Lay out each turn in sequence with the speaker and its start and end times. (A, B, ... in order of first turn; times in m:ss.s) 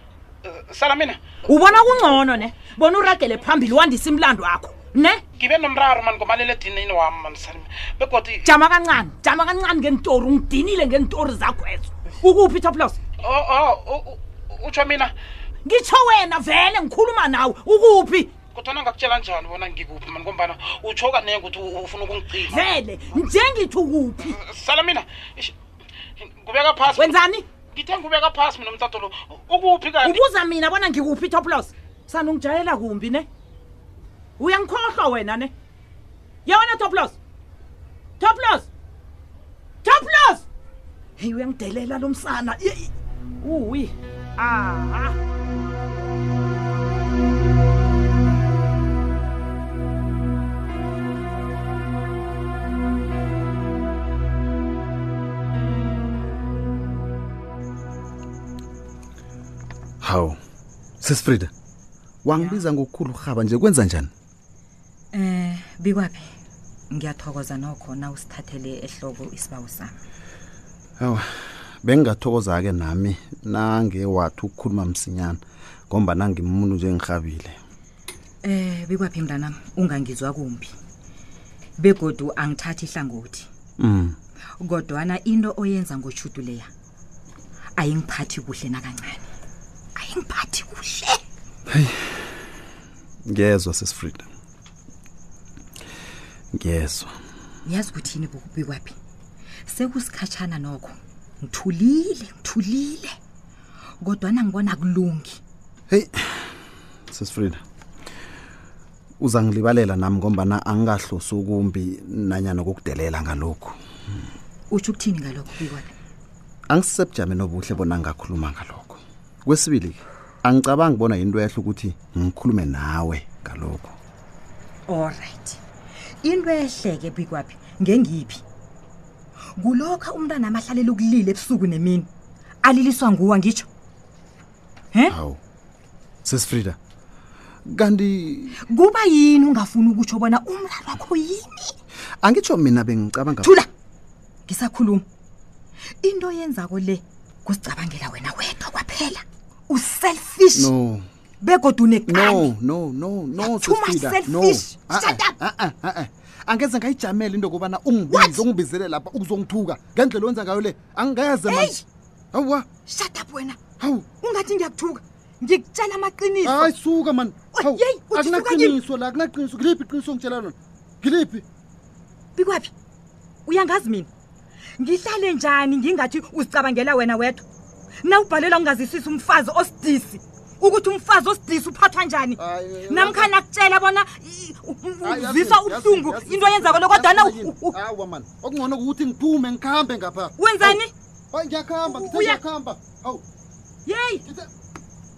0:00.4-0:01.3 A
0:01.4-0:05.2 B
0:05.4-0:08.5 A
0:08.4-0:13.0 B
0:13.2-0:15.1 A
0:15.6-0:18.3 B
0:18.5-0:22.6 A
0:22.4-0:24.4 B
0:24.3-0:25.5 A
0:26.2-0:27.2 A
0:26.9-0:27.4 B
0:27.7-0:30.2 A
0:30.0-0:33.3 B
0:34.4-0:35.5 B
0:36.4-0:37.1 B
0:38.2-0:38.7 B
0:39.8-0:40.4 B
0:41.2-0:42.9 B
0:43.4-0:45.2 B
1:00.0-1:00.4 C
1:01.0-1:01.5 C
1:02.2-1:04.1 C
1:05.1-1:06.3 D
1:06.9-1:10.0 D
1:11.0-1:17.6 C
1:18.4-1:20.7 D
1:21.8-1:23.5 D
1:23.8-1:24.2 C
1:24.6-1:26.7 D
1:27.8-1:29.3 D
1:30.0-1:31.2 D
1:31.7-1:32.2 C
1:33.3-1:34.3 C
1:36.6-1:37.1 C
1:37.6-1:39.0 D
1:39.6-1:43.2 D
1:44.0-1:45.4 D
1:45.9-1:46.4 C
1:47.1-1:47.6 C
1:49.2-1:53.8 C
1:54.7-1:55.9 D
1:56.7-2:03.9 C
2:04.9-2:05.6 D
2:06.2-2:08.4 D
2:09.6-2:12.1 D
2:12.6-2:13.7 D
2:15.1-2:15.4 C
2:16.2-2:16.8 C
2:17.7-2:18.5 C
2:18.7-2:21.7 D
2:22.2-2:23.5 C
2:23.4-2:23.7 D
2:24.5-2:25.0 D
2:26.0-2:30.7 D
2:30.5-2:31.0 C
2:31.4-2:32.5 D
2:32.1-2:41.8 C
2:33.4-2:35.4 D
2:38.1-2:38.4 D
2:41.4-2:41.8 D
2:42.3-2:42.6 C
2:42.8-2:43.6 D
2:43.8-2:44.0 C
2:44.2-2:46.7 D
2:46.4-2:51.4 C
2:47.5-2:48.8 D
2:52.3-2:52.7 D
2:53.4-2:54.1 D
2:54.8-2:57.4 D
2:58.0-3:07.8 D
3:02.4-3:03.3 C
3:05.0-3:10.8 C
3:10.4-3:10.9 D
3:11.3-3:13.2 C
3:11.9-3:12.4 D
3:13.8-3:14.2 D